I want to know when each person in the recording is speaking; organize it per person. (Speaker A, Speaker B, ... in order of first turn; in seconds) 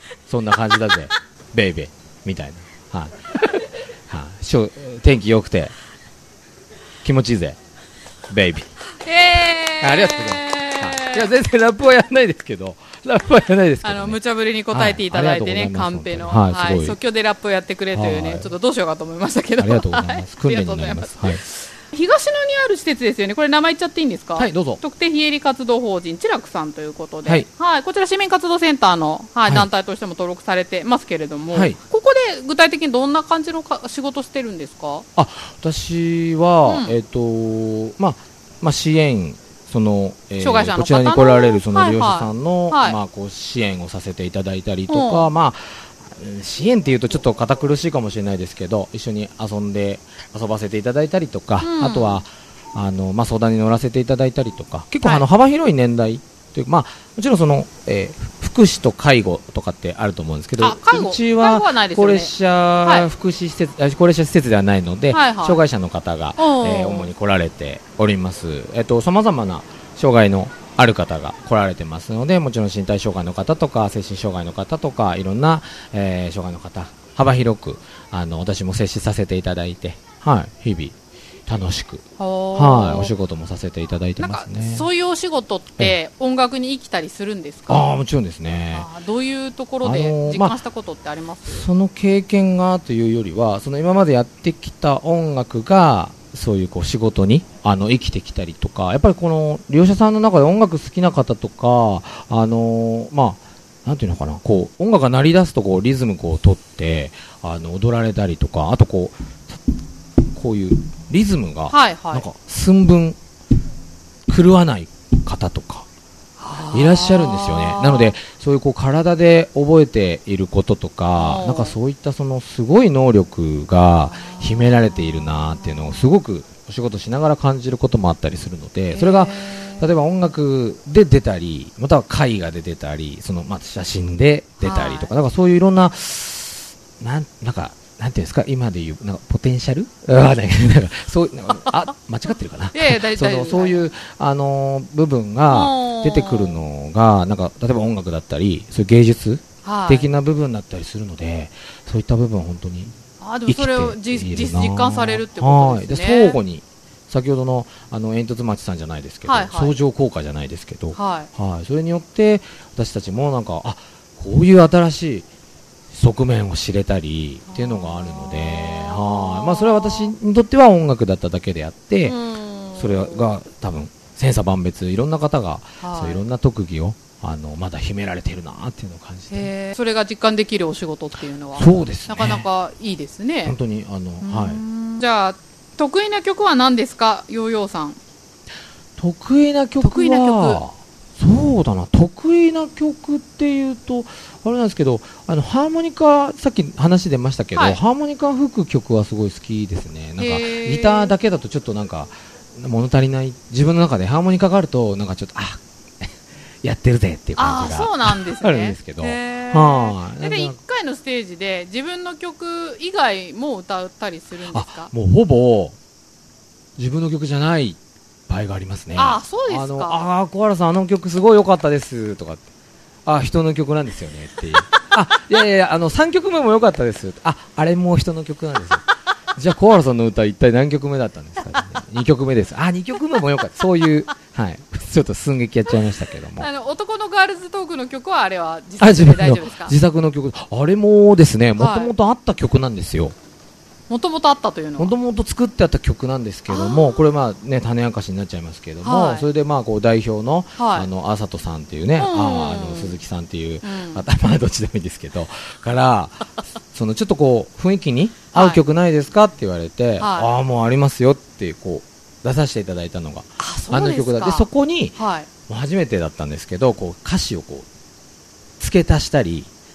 Speaker A: 0.3-5.7, 7.0-7.6, 8.3-8.7, 9.8-14.2, 14.7-17.0, 17.9-18.5, 19.6-21.4, 24.4-24.8, 35.2-81.0, 81.5-84.9, 87.7-88.9, 89.8-90.6, 91.5-109.6, 110.2-113.2, 114.3-115.8, 116.7-152.9, 153.5-165.3, 165.9-172.2, 172.8-179.5, 181.6-182.5, 183.4-184.6, 189.0-206.1, 206.6-210.6, 214.5-215.8, 216.8-222.5, 223.1-228.8, 229.4-236.5, 238.8-243.2, 244.8-267.7, 268.6-269.5
Speaker B: 9.0-11.3, 13.8-35.1, 36.6-37.0, 40.4-43.0, 44.9-45.3, 51.6-52.2, 60.6-62.3, 65.1-65.6, 66.4-67.1, 82.2-83.1, 84.2-87.9, 88.7-91.7, 111.7-112.3, 116.4-118.2, 121.2-121.8, 124.2-126.0, 128.9-129.9, 134.6-135.1, 142.7-143.8, 145.5-146.6, 149.6-150.1, 153.2-156.4, 159.3-159.8, 160.9-161.3, 167.5-170.1, 172.1-173.3, 175.8-176.2, 179.3-183.6, 184.2-188.0, 189.8-190.6, 200.2-201.1, 207.4-214.9, 218.9-220.1, 236.4-239.8, 241.6-241.9, 243.9-244.9, 246.5-247.1, 248.8-249.3, 250.6-250.9, 252.0-253.0, 253.6-254.0, 258.3-258.6, 260.0-260.3, 263.4-265.3